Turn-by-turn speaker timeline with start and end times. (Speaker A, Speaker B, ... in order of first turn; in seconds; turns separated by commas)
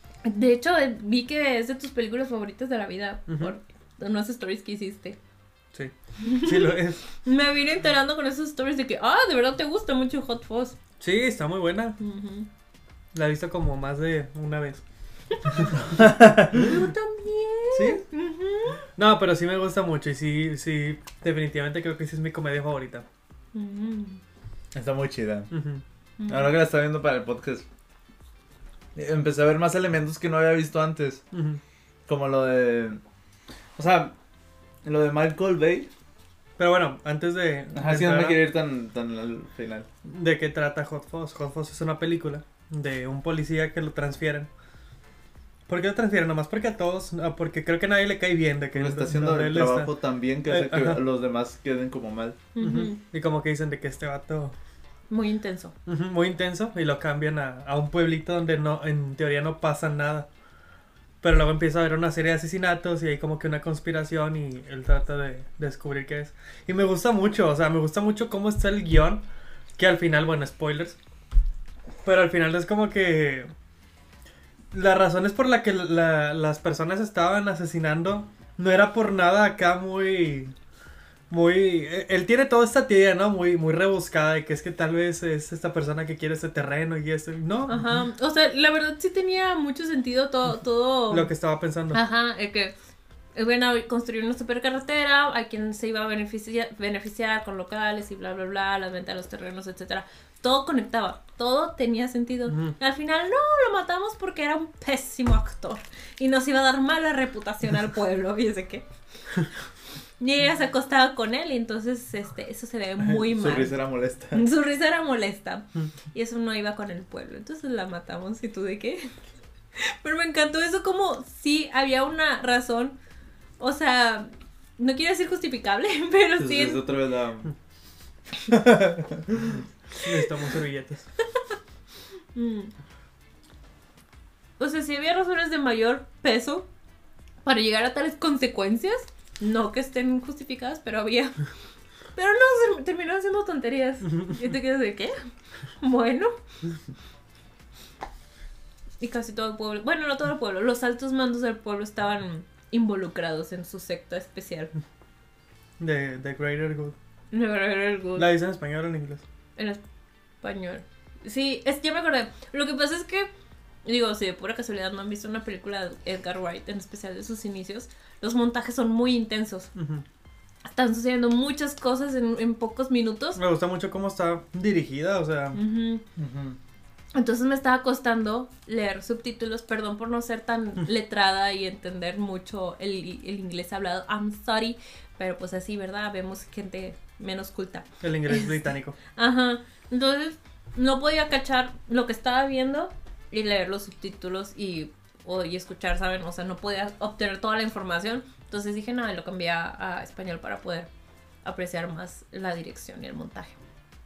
Speaker A: 0.2-5.2, Speaker B: 5.7-7.0, Speaker A: 6.2-10.8, Speaker B: 11.0-12.0, Speaker A: 12.0-12.5, Speaker B: 13.1-14.8, Speaker B: 15.5-15.8, Speaker C: 15.8-16.8, Speaker A: 16.5-18.8, Speaker B: 17.7-18.1, Speaker B: 19.0-23.1, Speaker A: 23.5-24.2, Speaker C: 24.7-25.5, Speaker B: 25.5-25.8, Speaker A: 26.2-26.6, Speaker C: 26.3-27.7, Speaker C: 28.9-31.2, Speaker B: 31.3-31.6, Speaker C: 32.1-33.0, Speaker C: 33.8-34.1, Speaker C: 34.8-35.9, Speaker B: 36.6-38.4, Speaker C: 37.8-39.9, Speaker B: 40.0-44.5, Speaker B: 45.7-49.9, Speaker C: 48.8-52.4, Speaker B: 50.5-51.0, Speaker A: 52.5-53.0, Speaker B: 52.6-54.5, Speaker A: 55.1-55.7, Speaker B: 55.9-60.3, Speaker B: 61.2-69.2, Speaker B: 69.8-71.0, Speaker B: 72.0-73.5, Speaker B: 74.7-80.5, Speaker B: 81.3-87.8, Speaker A: 87.7-91.3, Speaker B: 91.1-92.0, Speaker A: 91.9-92.7, Speaker A: 93.3-108.8, Speaker B: 102.5-102.7, Speaker A: 110.2-113.8, Speaker C: 113.0-114.5, Speaker A: 114.3-119.1, Speaker A: 119.8-123.0, Speaker A: 123.6-126.8, Speaker C: 126.4-127.5, Speaker C: 128.4-129.6, Speaker B: 129.9-131.1, Speaker A: 132.3-132.7, Speaker A: 134.6-136.7, Speaker A: 137.4-141.4, Speaker A: 142.2-145.2, Speaker A: 145.8-146.3, Speaker A: 149.0-154.7, Speaker B: 155.8-156.9, Speaker A: 157.3-158.3, Speaker B: 158.2-159.2, Speaker A: 160.4-163.3, Speaker A: 163.8-169.7, Speaker B: 169.8-170.1, Speaker A: 170.7-173.4, Speaker B: 173.4-175.6, Speaker A: 175.5-176.0, Speaker C: 176.2-176.6, Speaker A: 177.1-200.9, Speaker B: 188.0-189.0, Speaker A: 201.4-203.6